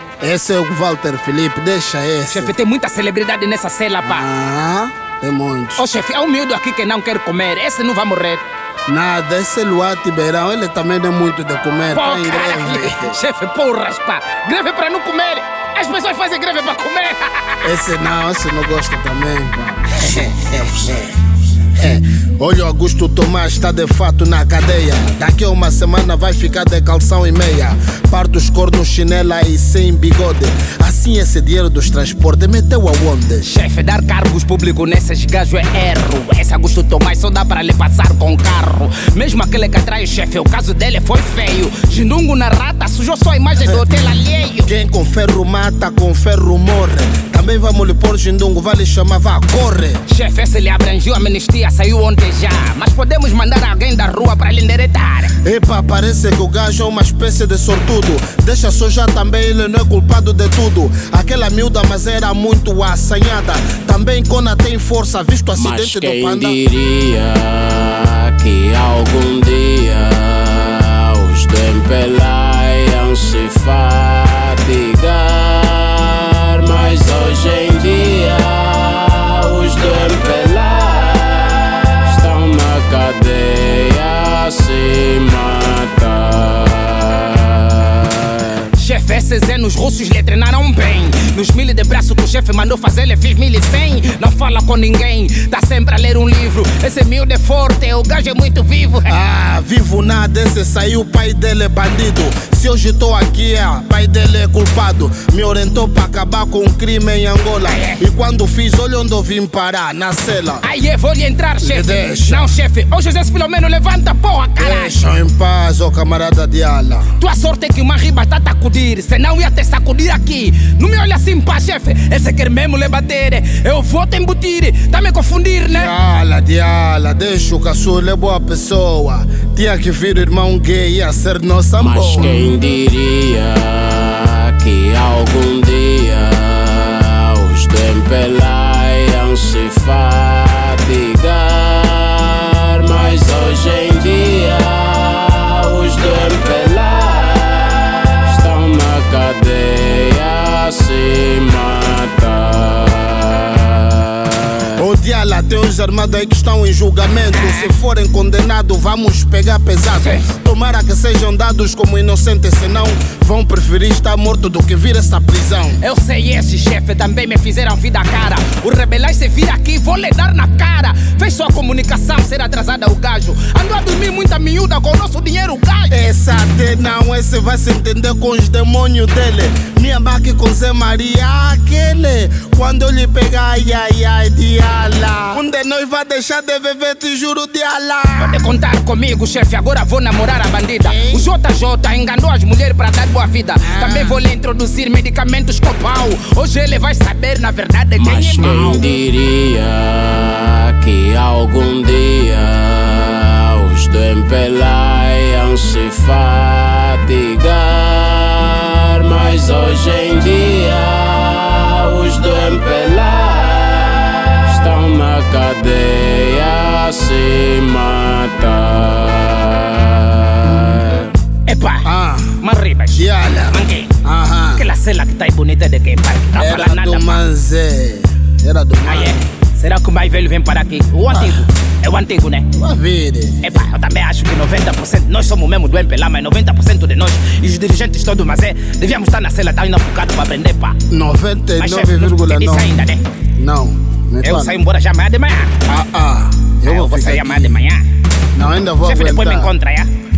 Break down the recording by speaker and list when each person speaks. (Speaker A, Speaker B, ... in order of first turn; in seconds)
Speaker A: 0.2-2.5, 4.0-5.9, 8.9-13.2, 17.6-21.2, 21.7-33.5, 44.6-50.0, 55.4-66.6, 99.1-110.6, 111.6-112.5, 114.6-117.1, 125.7-132.4, 154.8-165.8, 175.9-188.4, 190.8-191.3, 193.6-194.2, 221.8-222.4, 222.9-224.7, 226.4-229.2, 231.1-231.4, 232.5-233.6, 240.9-242.7, 243.4-244.6, 245.7-247.6, 248.3-249.5
Speaker B: 2.3-4.3, 5.8-8.4, 11.9-17.6, 33.4-44.7, 50.1-55.3, 88.7-99.1, 107.7-108.0, 110.6-115.0, 117.2-125.9, 157.3-157.7, 160.0-160.3, 165.8-176.0, 188.2-198.8, 221.5-223.9, 224.6-227.2, 228.9-232.5, 233.4-240.8, 241.6-243.0, 244.2-245.5, 246.6-247.8, 248.8-249.9
Speaker C: 65.5-88.7, 131.8-154.8, 198.0-221.1